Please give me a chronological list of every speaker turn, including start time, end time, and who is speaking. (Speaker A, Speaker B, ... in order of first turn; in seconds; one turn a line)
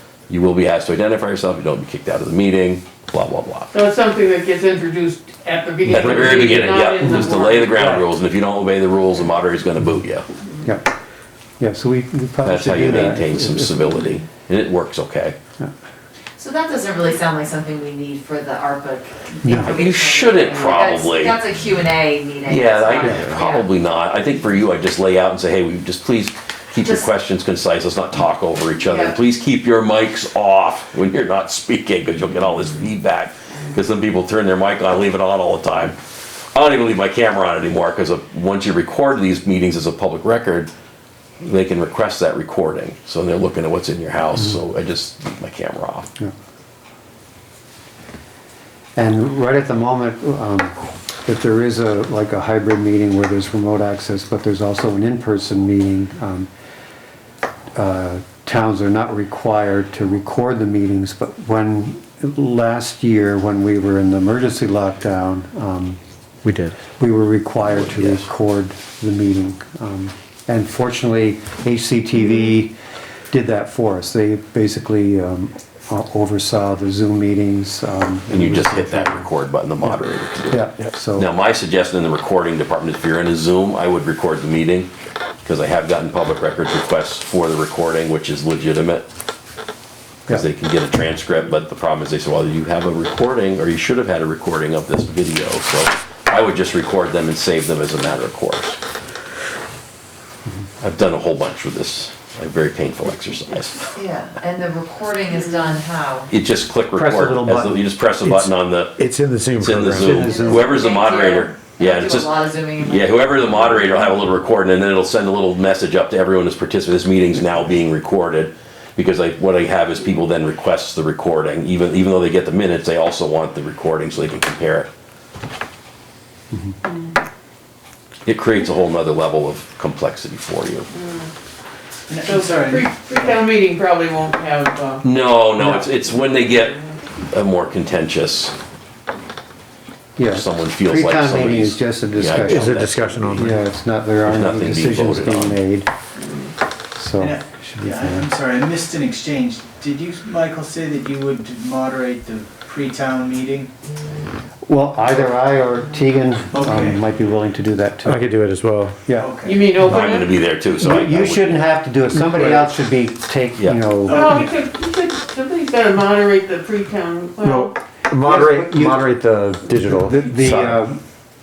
Speaker A: 0.3-3.7
Speaker B: 3.7-8.1
Speaker A: 5.8-10.2
Speaker C: 5.9-6.5
Speaker D: 10.6-10.9
Speaker D: 11.6-13.8
Speaker A: 12.4-15.4
Speaker E: 16.4-23.7
Speaker D: 19.4-19.8
Speaker A: 19.6-21.4
Speaker A: 22.5-36.0
Speaker E: 28.9-29.1
Speaker A: 36.5-40.7
Speaker A: 41.4-46.1
Speaker D: 49.0-56.5
Speaker D: 57.8-66.0
Speaker C: 66.5-66.8
Speaker D: 67.0-72.7
Speaker A: 67.6-68.3
Speaker D: 73.3-79.3
Speaker A: 78.3-84.9
Speaker D: 80.5-81.3
Speaker A: 85.4-89.1
Speaker A: 90.3-98.8
Speaker A: 100.8-103.9
Speaker E: 104.0-106.3
Speaker A: 106.3-109.0
Speaker D: 106.9-107.9
Speaker C: 108.2-110.4
Speaker A: 109.6-124.9
Speaker D: 110.0-110.7
Speaker E: 110.2-113.2
Speaker A: 128.3-130.9
Speaker B: 131.0-131.3
Speaker F: 132.1-133.4
Speaker B: 132.2-135.1
Speaker A: 135.0-138.5
Speaker D: 135.6-135.9
Speaker D: 140.2-145.9
Speaker A: 140.3-143.6
Speaker C: 142.4-143.5
Speaker A: 144.2-145.6
Speaker D: 147.0-148.3
Speaker F: 147.2-153.7
Speaker D: 154.7-158.2
Speaker F: 156.5-157.0
Speaker C: 158.0-159.0
Speaker F: 159.2-159.7
Speaker B: 159.4-160.3
Speaker A: 159.8-161.7
Speaker D: 160.8-164.3
Speaker F: 164.1-164.5
Speaker B: 164.1-167.8
Speaker C: 167.4-170.8
Speaker D: 168.2-169.1
Speaker D: 169.7-171.0